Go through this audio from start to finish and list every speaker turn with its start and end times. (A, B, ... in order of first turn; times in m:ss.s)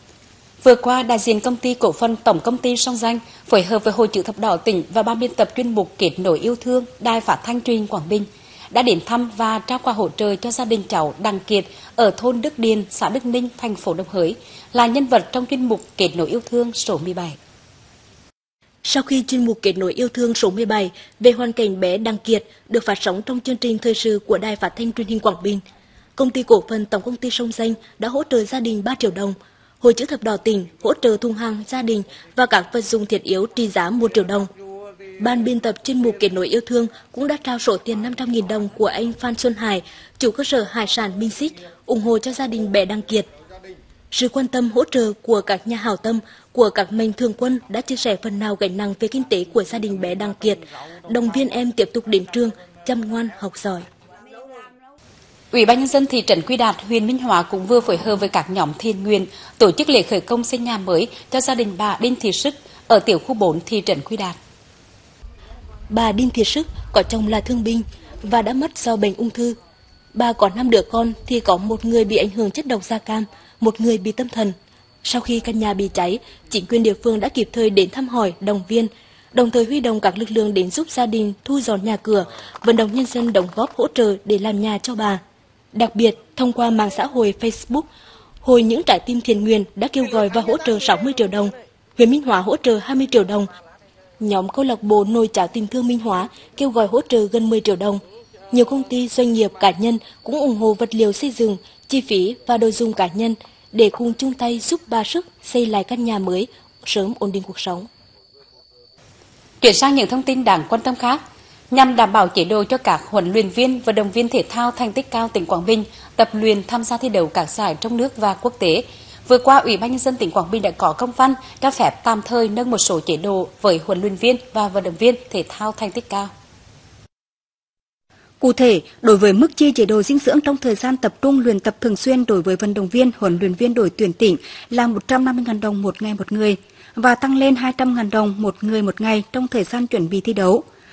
0:00.6-0:17.4 A
0:18.8-0:25.6 B
0:26.2-0:34.5 B
0:35.2-0:43.3 B
0:44.1-0:53.9 B
0:55.5-1:04.4 A
1:05.9-1:09.6 B
1:10.2-1:25.2 B
1:25.7-1:27.9 B
1:28.4-1:33.5 B
1:34.2-1:38.0 B
1:38.5-1:47.9 B
1:49.6-1:51.2 A
1:51.7-2:06.3 A
2:08.4-2:20.6 C